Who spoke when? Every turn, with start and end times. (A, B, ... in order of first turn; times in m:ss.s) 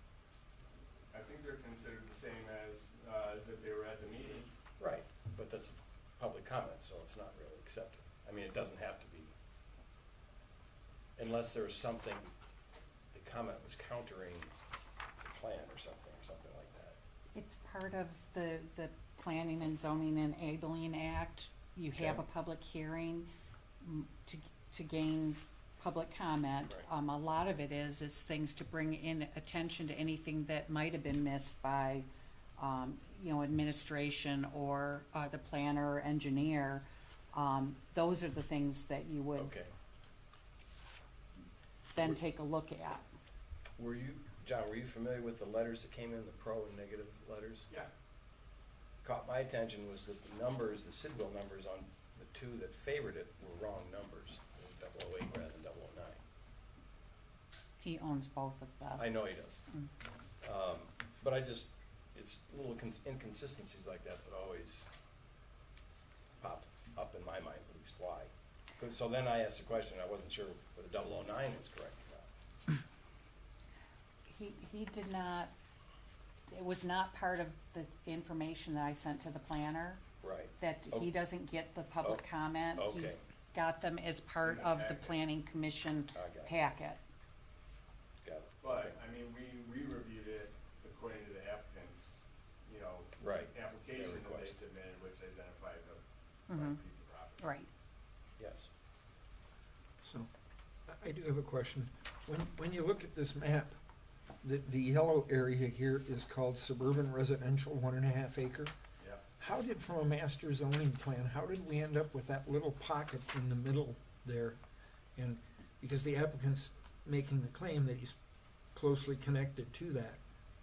0:01.1-0:04.5 A
0:04.8-0:09.3 B
0:11.2-0:12.3 B
0:13.1-0:14.5 B
0:15.2-0:17.0 B
0:17.3-0:23.3 C
0:21.9-0:22.2 B
0:23.8-0:39.5 C
0:39.3-0:39.7 B
0:41.9-0:43.0 C
0:43.8-0:47.7 B
0:49.0-0:56.2 B
0:57.8-0:59.9 C
0:59.0-0:59.6 B
1:00.4-1:04.9 B
1:06.4-1:12.3 B
1:14.3-1:15.5 C
1:16.5-1:20.0 C
1:20.2-1:21.1 B
1:20.6-1:27.0 C
1:22.0-1:23.2 B
1:24.4-1:25.2 A
1:26.1-1:26.5 B
1:28.2-1:29.0 B
1:28.6-1:37.4 A
1:33.2-1:34.6 B
1:36.5-1:36.8 C
1:37.4-1:37.7 C
1:38.4-1:38.7 B
1:40.0-1:40.3 D
1:40.9-1:43.8 D
1:44.4-1:48.7 D
1:49.4-1:54.6 D
1:55.2-1:58.2 D
1:58.7-2:00.2 D